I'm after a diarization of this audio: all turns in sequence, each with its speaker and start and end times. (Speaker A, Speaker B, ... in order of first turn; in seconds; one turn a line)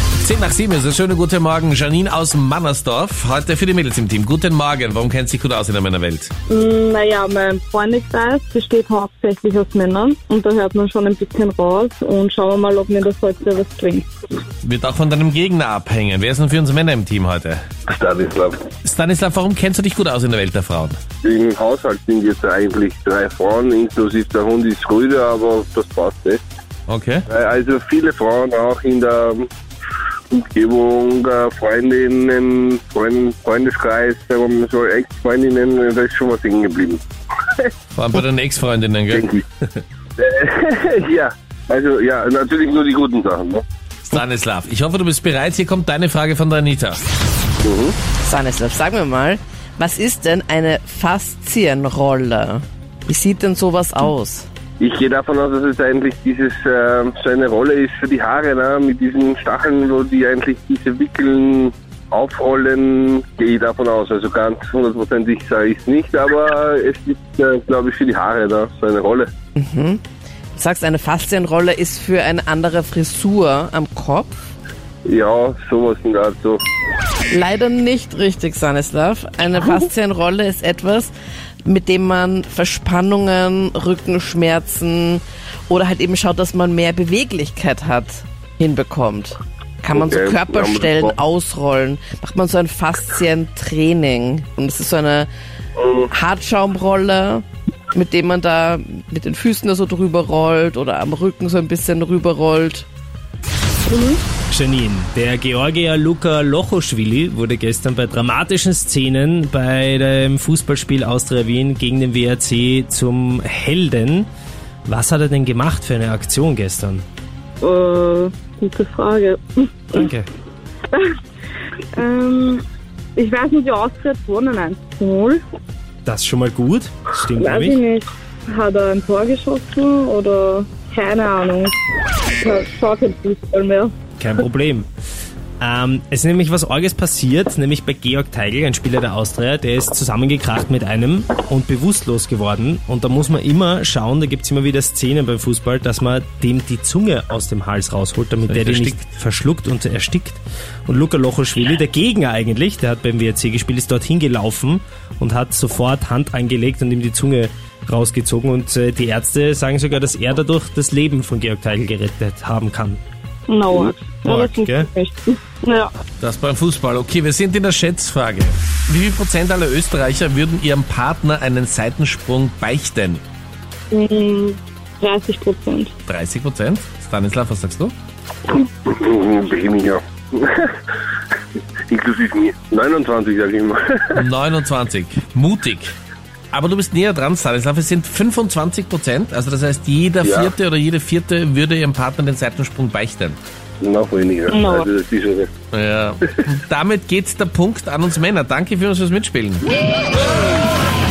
Speaker A: 0.2-6.3
Speaker B: 6.5-14.1
Speaker A: 14.6-17.6
Speaker C: 17.9-18.6
Speaker A: 18.8-21.0
Speaker C: 21.2-26.4
Speaker A: 26.9-27.2
Speaker C: 27.3-29.5
Speaker C: 30.3-37.7
Speaker A: 37.9-39.8
Speaker C: 39.1-39.4
Speaker C: 40.2-43.6
Speaker A: 44.1-47.0
Speaker C: 47.6-48.0
Speaker D: 48.2-54.5
Speaker C: 54.8-69.3
Speaker D: 69.5-70.0
Speaker D: 70.5-74.4
Speaker C: 75.0-76.6
Speaker D: 77.3-81.1
Speaker D: 81.6-95.3
Speaker C: 89.9-91.2
Speaker C: 95.8-96.1
Speaker D: 96.1-102.9
Speaker B: 103.9-104.2
Speaker E: 104.5-114.3
Speaker E: 114.8-117.0
Speaker B: 117.6-120.1
Speaker E: 119.9-120.3
Speaker B: 121.9-122.6
Speaker B: 123.2-125.4
Speaker E: 126.0-127.8
Speaker B: 127.4-131.7
Speaker B: 132.4-133.9
Speaker E: 134.2-134.9
Speaker E: 135.6-163.0
Speaker A: 148.4-149.0
Speaker B: 163.5-165.9
Speaker E: 164.2-164.9
Speaker A: 166.2-173.2
Speaker B: 173.9-175.9
Speaker A: 176.1-177.9
Speaker C: 178.5-180.8
Speaker C: 181.9-184.2
Speaker A: 184.1-185.9
Speaker A: 186.5-193.4
Speaker C: 190.2-190.5
Speaker C: 193.8-195.5
Speaker B: 194.5-194.9
Speaker A: 195.7-199.7